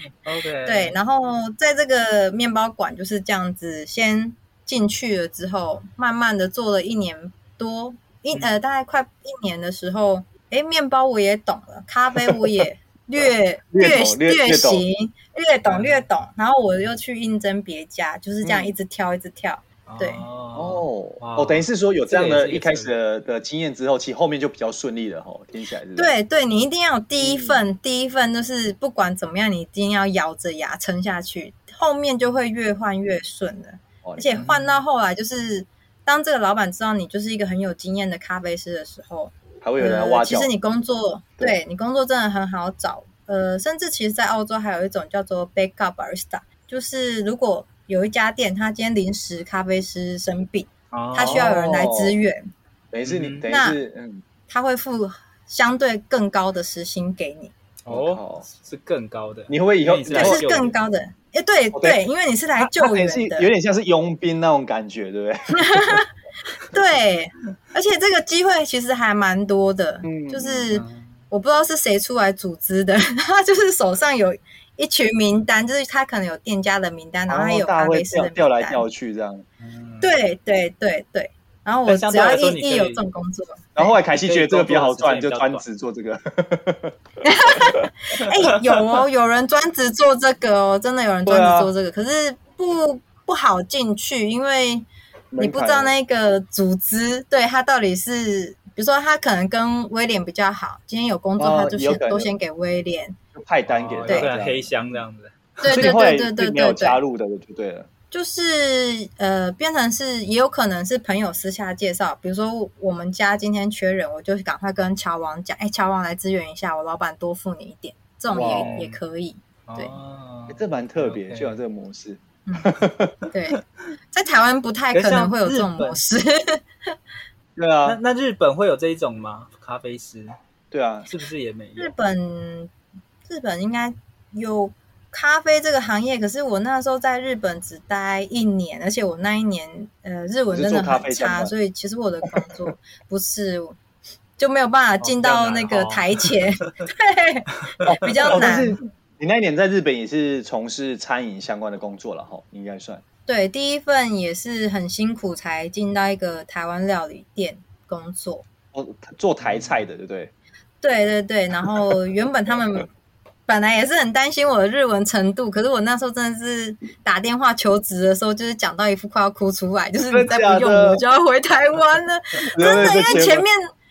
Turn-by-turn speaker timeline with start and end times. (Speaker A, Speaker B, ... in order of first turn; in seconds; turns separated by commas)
Speaker A: 0.2-1.0, Speaker B: 0.7-20.2, Speaker C: 13.2-14.9, Speaker A: 15.7-16.1, Speaker C: 18.4-18.8, Speaker A: 19.9-22.9, Speaker C: 20.5-26.1, Speaker B: 26.0-52.5, Speaker C: 27.2-27.6, Speaker C: 34.0-34.5, Speaker A: 34.4-34.8, Speaker C: 39.6-40.5, Speaker A: 50.9-51.4, Speaker C: 51.2-52.2, Speaker C: 52.9-54.2, Speaker A: 53.0-53.5, Speaker B: 53.5-53.8, Speaker B: 54.5-57.5, Speaker A: 57.9-60.8, Speaker C: 57.9-58.5, Speaker C: 59.5-60.5, Speaker B: 60.1-63.5, Speaker C: 61.7-62.0, Speaker C: 62.6-66.0, Speaker B: 65.6-66.1, Speaker B: 66.7-78.9, Speaker C: 70.0-70.7, Speaker A: 70.7-71.2, Speaker C: 77.3-79.4, Speaker A: 79.6-80.1, Speaker B: 80.0-83.9, Speaker A: 81.9-83.0, Speaker C: 83.8-87.0, Speaker A: 84.2-85.7, Speaker B: 87.2-94.9, Speaker C: 91.3-91.7, Speaker C: 95.3-95.9, Speaker B: 95.4-103.2, Speaker C: 101.4-102.3, Speaker C: 103.3-104.7, Speaker A: 103.7-105.8, Speaker B: 105.6-107.0, Speaker C: 105.7-107.9, Speaker B: 108.1-119.9, Speaker C: 118.3-118.8, Speaker A: 118.5-119.0, Speaker A: 119.7-121.6, Speaker C: 120.5-123.2, Speaker B: 122.5-122.7, Speaker B: 123.3-123.6, Speaker B: 124.1-126.9, Speaker A: 124.9-126.0, Speaker C: 127.6-128.0, Speaker A: 127.8-130.3, Speaker C: 130.7-131.1, Speaker A: 131.1-131.9, Speaker B: 131.8-132.7, Speaker B: 133.3-143.8, Speaker C: 140.5-141.5, Speaker B: 144.4-148.8, Speaker A: 145.0-146.3, Speaker C: 147.8-153.0, Speaker B: 153.3-158.4, Speaker C: 158.7-160.3, Speaker A: 159.4-159.8, Speaker B: 160.8-162.9, Speaker B: 163.5-173.6, Speaker C: 170.1-171.0, Speaker C: 172.5-173.5